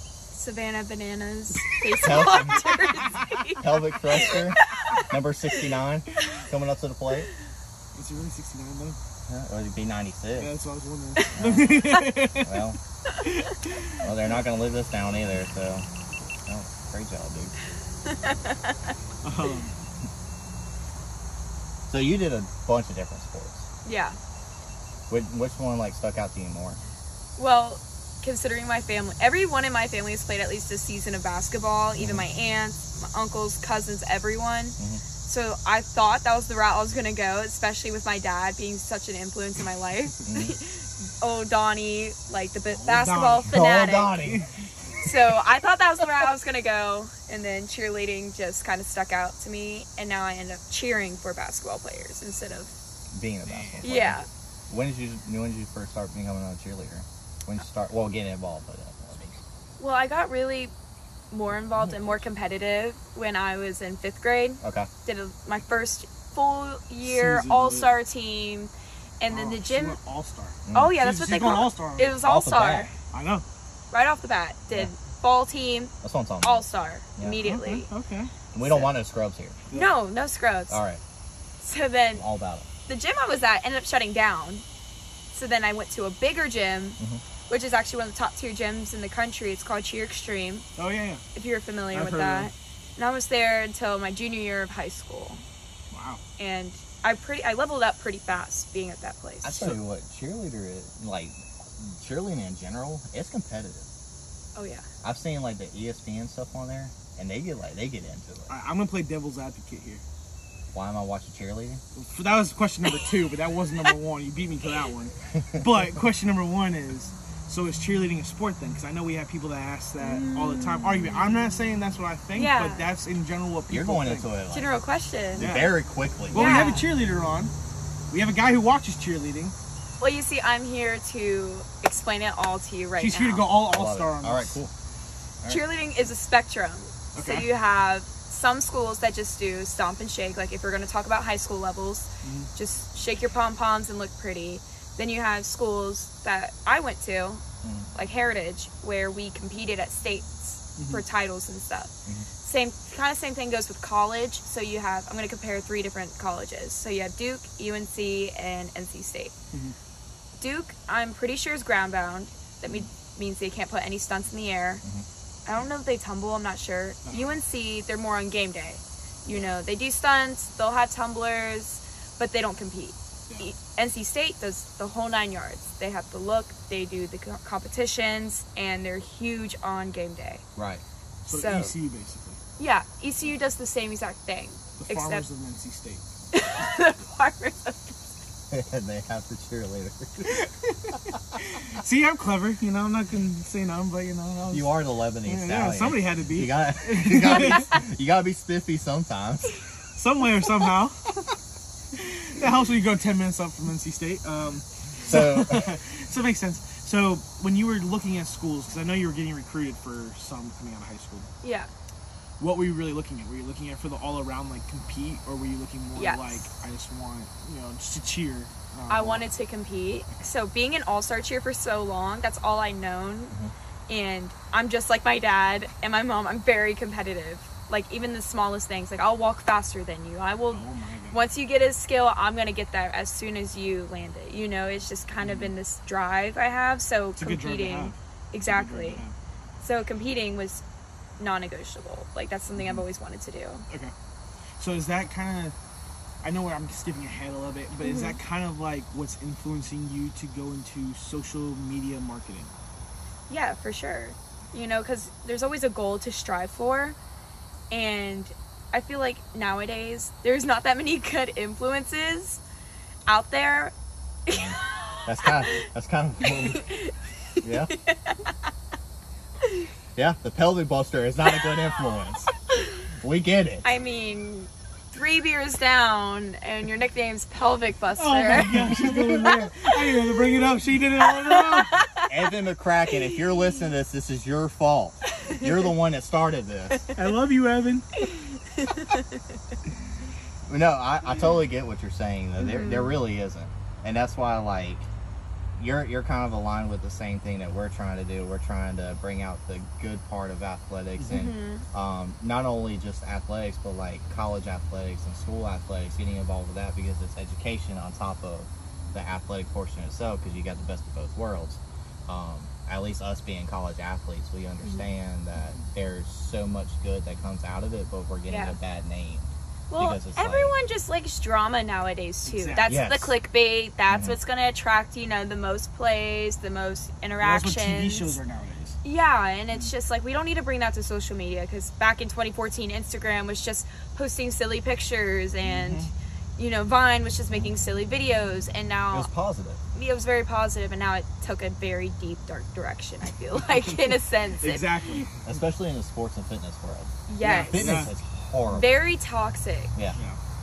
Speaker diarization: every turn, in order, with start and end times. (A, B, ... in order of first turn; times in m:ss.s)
0:00.3-0:05.6 A
0:02.0-0:02.7 B
0:02.0-0:03.2 C
0:03.6-0:07.3 B
0:07.9-0:09.0 C
0:09.3-0:10.5 B
0:10.3-0:12.6 C
0:11.3-0:12.8 B
0:13.2-0:14.4 C
0:14.0-0:15.8 B
0:16.4-0:17.5 B
0:18.1-0:18.9 A
0:19.2-0:19.7 C
0:21.9-0:23.7 B
0:23.8-0:24.2 A
0:25.1-0:26.8 B
0:27.4-0:44.2 A
0:32.0-0:32.3 B
0:34.8-0:35.0 B
0:40.2-0:40.6 B
0:42.7-0:45.1 C
0:43.4-0:44.4 B
0:45.0-0:52.7 A
0:53.1-0:59.4 B
0:53.4-0:54.0 C
0:53.8-0:54.3 A
0:59.8-1:00.7 A
1:01.3-1:10.0 A
1:01.8-1:02.2 C
1:04.6-1:04.9 B
1:07.0-1:07.9 C
1:09.3-1:12.2 C
1:10.7-1:11.0 B
1:10.7-1:12.9 A
1:12.2-1:12.9 B
1:13.1-1:13.4 C
1:13.9-1:15.9 A
1:16.0-1:16.6 B
1:16.4-1:17.9 A
1:17.2-1:17.4 B
1:17.4-1:18.9 C
1:18.5-1:19.6 B
1:19.7-1:20.8 A
1:20.7-1:21.0 B
1:21.6-1:22.2 A
1:22.1-1:22.7 B
1:22.9-1:24.6 A
1:25.3-1:30.6 A
1:30.8-1:31.2 C
1:31.3-1:35.4 A
1:31.9-1:32.5 C
1:35.9-1:36.2 C
1:36.4-1:39.7 A
1:39.4-1:43.9 B
1:44.5-1:44.8 A
1:45.0-1:48.5 B
1:48.5-1:50.0 C
1:50.7-1:51.8 B
1:51.9-2:04.3 C
1:55.3-1:55.6 B
2:00.0-2:01.3 A
2:02.3-2:02.9 A
2:03.7-2:04.7 B
2:04.5-2:05.5 A
2:05.4-2:06.7 B
2:05.4-2:07.5 C
2:06.3-2:06.9 A
2:08.1-2:09.5 C
2:10.0-2:13.4 A
2:13.0-2:14.6 C
2:13.6-2:14.7 B
2:15.4-2:27.4 A
2:17.1-2:17.5 C
2:22.2-2:22.5 C
2:27.6-2:27.9 B
2:27.9-2:39.3 A
2:30.8-2:31.0 C
2:40.4-2:44.8 A
2:45.4-3:00.4 A
2:47.0-2:47.4 C
2:49.3-2:49.5 C
3:00.6-3:00.8 B
3:01.2-3:01.7 A
3:01.3-3:02.4 C
3:02.6-3:05.2 A
3:04.8-3:06.0 C
3:06.3-3:07.9 A
3:08.5-3:10.4 B
3:10.2-3:17.7 C
3:14.5-3:19.6 B
3:20.0-3:21.1 C
3:22.0-3:31.3 C
3:25.0-3:25.7 B
3:31.4-3:31.7 A
3:32.4-3:39.3 C
3:35.9-3:36.5 A
3:38.9-3:43.4 A
3:43.9-3:59.0 A
3:50.5-3:51.2 C
3:55.2-3:55.5 C
3:57.2-3:59.1 C
3:59.6-4:00.6 A
4:01.2-4:03.6 A
4:02.6-4:02.8 C
4:04.6-4:05.5 C
4:06.2-4:12.5 C
4:07.8-4:08.2 A
4:13.3-4:17.0 A
4:17.7-4:22.4 A
4:23.1-4:23.7 A
4:24.3-4:25.6 A
4:24.3-4:26.6 B
4:26.2-4:28.2 A
4:27.4-4:27.7 B
4:30.0-4:32.3 B
4:33.0-4:33.7 B
4:33.6-4:39.0 A
4:38.0-4:41.8 C
4:41.2-4:42.1 A
4:42.1-4:46.9 B
4:46.9-4:47.9 C
4:48.1-4:49.1 A
4:50.5-4:54.9 B
4:52.4-4:53.0 A
4:55.6-5:20.5 B
5:01.1-5:01.6 A
5:18.3-5:18.6 A
5:19.7-5:28.2 A
5:22.2-5:22.8 C
5:22.6-5:23.1 B
5:23.9-5:24.2 B
5:27.2-5:28.8 C
5:28.8-5:39.1 A
5:35.4-5:35.9 C
5:38.9-5:39.6 B
5:39.7-5:45.0 A
5:43.6-5:45.1 C
5:45.2-5:48.7 B
5:47.1-5:47.9 A
5:47.2-5:47.9 C
5:48.5-5:49.7 A